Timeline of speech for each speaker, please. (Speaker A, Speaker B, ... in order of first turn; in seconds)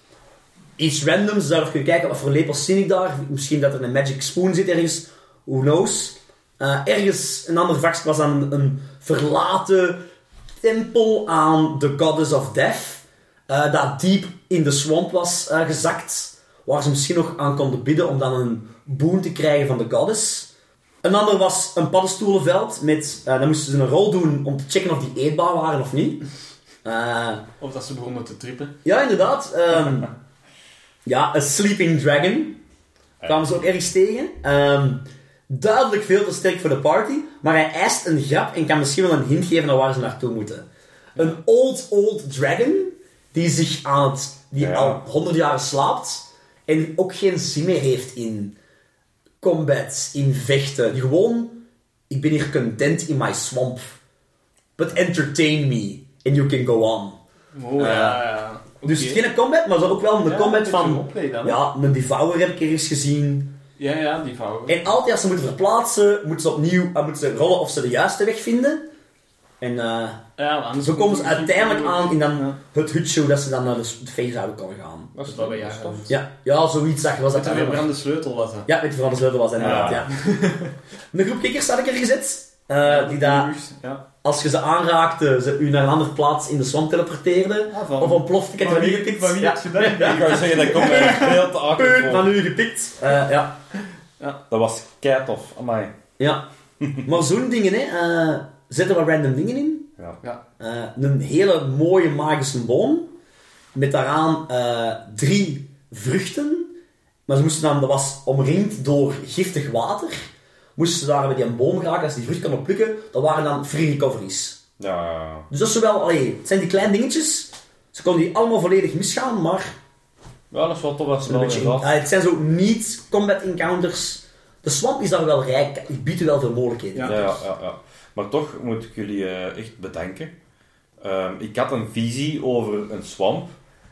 Speaker A: 0.8-10.0, 10.6-20.5, 21.0-26.2, 26.8-27.4, 28.8-30.1, 31.0-32.6, 33.2-48.5, 49.4-54.0, 54.8-57.2, 57.8-58.2, 58.8-63.5, 64.7-68.9, 69.6-70.2, 70.8-75.1, 76.1-77.9, 78.7-80.2, 81.1-83.5, 84.2-93.6, 96.2-96.4, 97.0-99.9, 100.6-103.1, 103.7-106.7, 107.3-110.2, 110.8-114.6, 115.5-119.7, 121.2-127.2
Speaker B: 27.6-28.7, 57.5-59.2, 60.2-61.6, 63.8-64.8, 70.4-72.6, 75.2-76.2, 77.3-78.7, 79.6-80.7, 82.8-84.0, 87.7-91.3, 126.9-127.4
Speaker C: 44.6-45.0, 75.1-76.1, 79.6-80.0, 90.0-92.3, 94.5-95.9, 114.8-115.5, 120.5-121.9, 127.1-130.3, 131.0-133.5